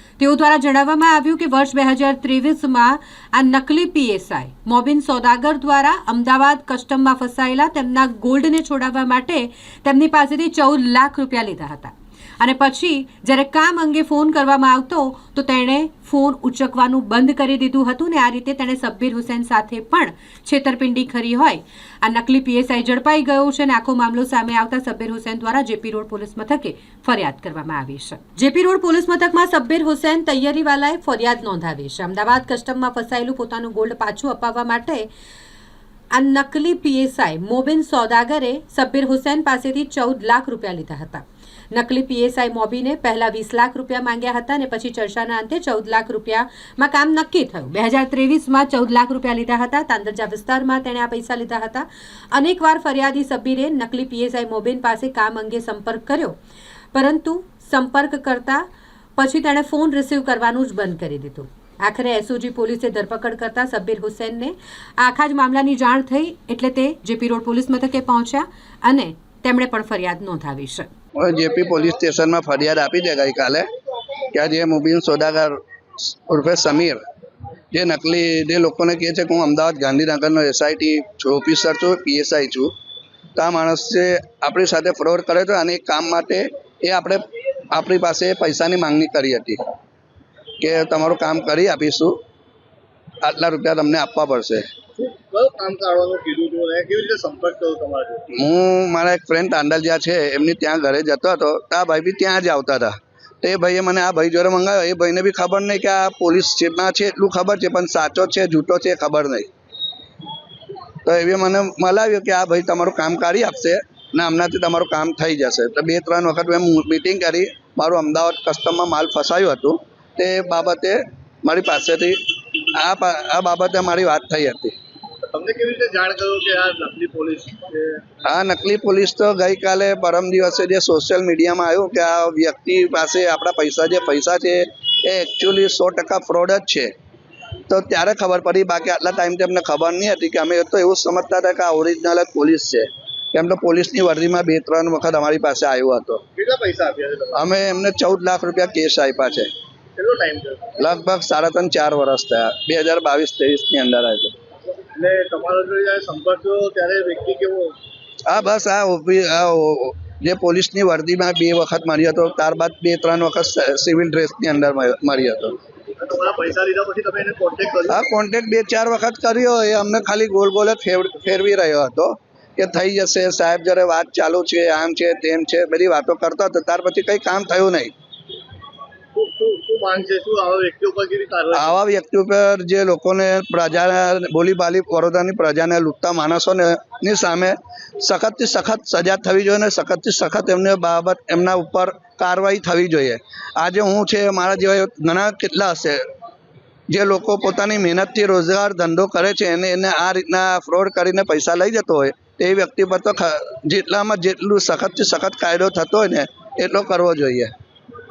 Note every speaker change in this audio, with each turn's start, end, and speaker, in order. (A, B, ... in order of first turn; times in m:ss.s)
0:00.2-0:35.1 A
0:36.1-0:56.4 A
0:56.9-1:10.9 A
1:11.2-1:13.7 B
1:14.3-1:17.0 B
1:17.7-1:22.7 B
1:23.4-1:29.6 B
1:30.6-1:32.2 B
1:33.2-1:34.7 B
1:35.0-1:38.2 C
1:38.3-1:49.5 B
1:51.0-2:02.2 B
2:02.7-2:04.7 B
2:05.3-2:08.2 C
2:08.2-2:16.9 B
2:17.7-2:26.2 B
2:26.4-2:27.4 C
2:27.3-2:29.5 B
2:30.0-2:30.8 C
2:30.8-2:34.3 B
2:34.9-2:37.7 C
2:38.2-2:45.6 B
2:46.0-2:48.0 C
2:47.9-2:57.9 B
2:59.1-3:01.8 C
3:01.5-3:16.0 B
3:16.9-3:27.5 B